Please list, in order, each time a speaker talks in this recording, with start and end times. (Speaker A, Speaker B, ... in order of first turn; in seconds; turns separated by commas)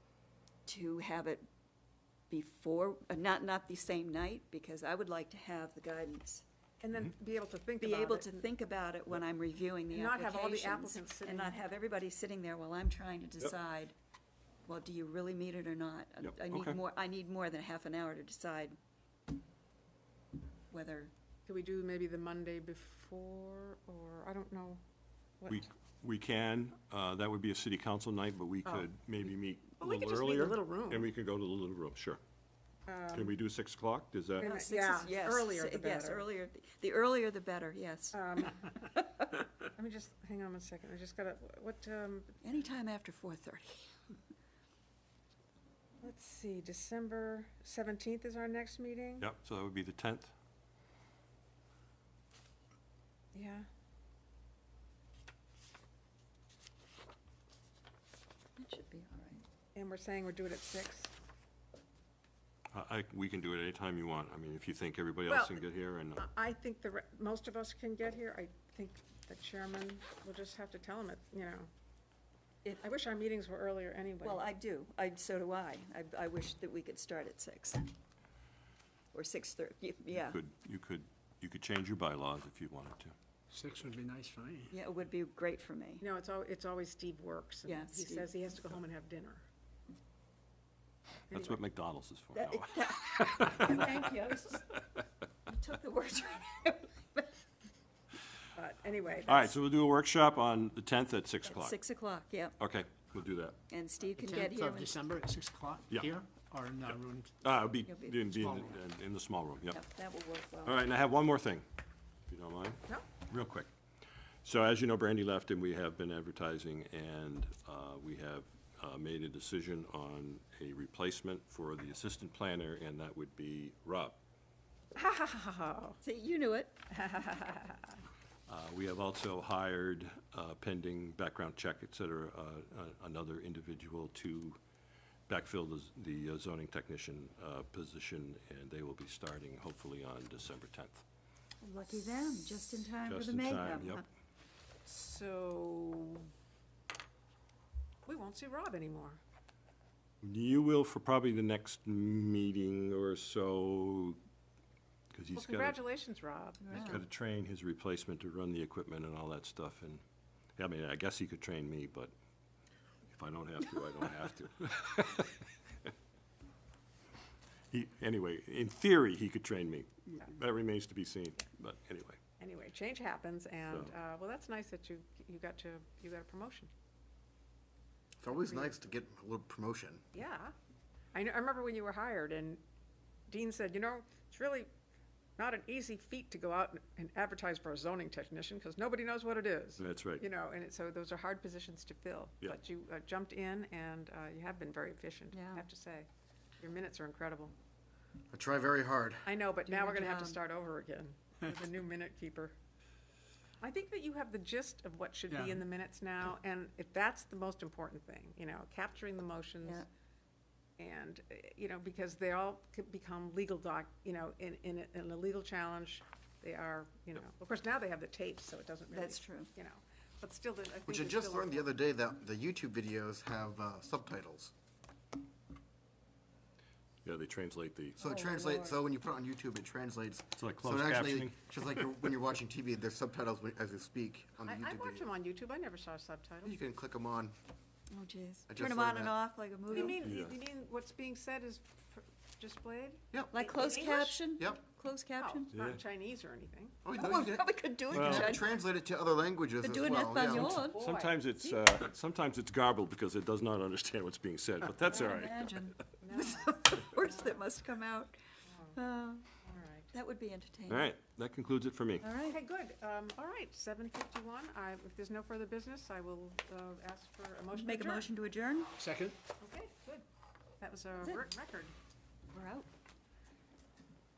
Speaker A: 0.7-1.4, Speaker A: 2.3-6.4, Speaker B: 6.8-8.4, Speaker A: 7.8-13.9, Speaker B: 9.9-11.6, Speaker A: 14.7-18.8, Speaker C: 16.2-16.8, Speaker A: 20.7-21.1, Speaker B: 21.5-24.8, Speaker B: 25.4-25.6, Speaker C: 25.5-32.2, Speaker B: 29.8-31.1, Speaker B: 32.9-33.4, Speaker C: 33.1-34.5, Speaker B: 34.4-36.3, Speaker A: 34.4-39.4, Speaker B: 38.1-38.6, Speaker B: 39.6-42.4, Speaker A: 42.4-43.9, Speaker B: 46.0-49.2, Speaker C: 49.2-50.3, Speaker B: 53.3-53.6, Speaker A: 58.6-59.4, Speaker B: 59.7-61.1, Speaker C: 62.7-66.3, Speaker B: 65.3-65.6, Speaker B: 66.2-71.7, Speaker B: 72.8-74.4, Speaker A: 74.2-77.9, Speaker A: 79.1-80.4, Speaker C: 80.1-83.1, Speaker D: 83.5-84.7, Speaker A: 84.7-86.0, Speaker B: 86.0-89.5, Speaker A: 87.7-88.3, Speaker B: 91.3-91.6, Speaker C: 91.3-93.8, Speaker A: 92.3-94.6, Speaker A: 95.5-97.3, Speaker B: 98.5-99.5, Speaker C: 99.2-101.8, Speaker A: 101.5-102.6, Speaker C: 102.6-103.6, Speaker A: 103.7-105.0, Speaker D: 104.2-107.3, Speaker C: 106.9-109.8, Speaker A: 107.8-108.2, Speaker D: 108.3-108.6, Speaker A: 109.7-110.8, Speaker C: 110.6-111.6, Speaker C: 112.3-113.7, Speaker C: 114.4-124.2, Speaker B: 125.0-126.0, Speaker A: 126.0-126.8, Speaker B: 126.9-128.0, Speaker C: 128.5-134.6, Speaker C: 135.3-141.0, Speaker A: 141.6-144.0, Speaker C: 143.1-144.0, Speaker B: 144.8-146.3, Speaker B: 148.1-149.2, Speaker C: 150.2-154.2, Speaker C: 155.1-155.8, Speaker B: 155.3-156.9, Speaker A: 156.6-157.0, Speaker C: 156.7-160.0, Speaker C: 160.6-162.1, Speaker C: 163.1-165.4, Speaker C: 167.7-172.2, Speaker B: 172.4-176.7, Speaker E: 178.2-180.1, Speaker B: 178.3-178.7, Speaker B: 180.1-180.5, Speaker B: 181.1-182.6, Speaker B: 183.3-184.7, Speaker B: 185.4-196.1, Speaker C: 189.8-190.2, Speaker A: 195.3-195.7, Speaker B: 196.6-197.5, Speaker E: 198.3-199.3, Speaker B: 199.2-202.5, Speaker A: 199.7-200.4, Speaker B: 203.6-209.8, Speaker D: 205.3-205.6, Speaker B: 210.8-221.7, Speaker A: 218.9-219.5, Speaker E: 220.8-224.5, Speaker C: 227.0-228.0, Speaker E: 228.0-235.1, Speaker A: 228.0-228.8, Speaker C: 230.4-231.4, Speaker B: 234.4-236.6, Speaker E: 236.4-237.3, Speaker A: 237.9-240.1, Speaker E: 238.5-239.1, Speaker B: 239.7-244.3, Speaker C: 239.8-240.4, Speaker A: 243.3-245.5, Speaker B: 245.1-246.8, Speaker C: 245.5-245.8, Speaker E: 246.8-250.6, Speaker A: 246.9-248.5, Speaker C: 247.9-248.4, Speaker A: 249.6-250.8, Speaker C: 250.2-255.8, Speaker B: 250.5-251.2, Speaker A: 254.7-258.1, Speaker B: 256.0-257.4, Speaker B: 258.5-258.8, Speaker A: 258.7-259.2, Speaker B: 259.4-259.9, Speaker A: 259.9-260.9, Speaker C: 260.7-262.1, Speaker A: 262.0-262.4, Speaker B: 262.2-268.1, Speaker A: 267.5-268.7, Speaker D: 268.8-269.2, Speaker B: 269.4-270.0, Speaker B: 270.6-271.7, Speaker A: 271.0-271.2, Speaker A: 272.3-272.7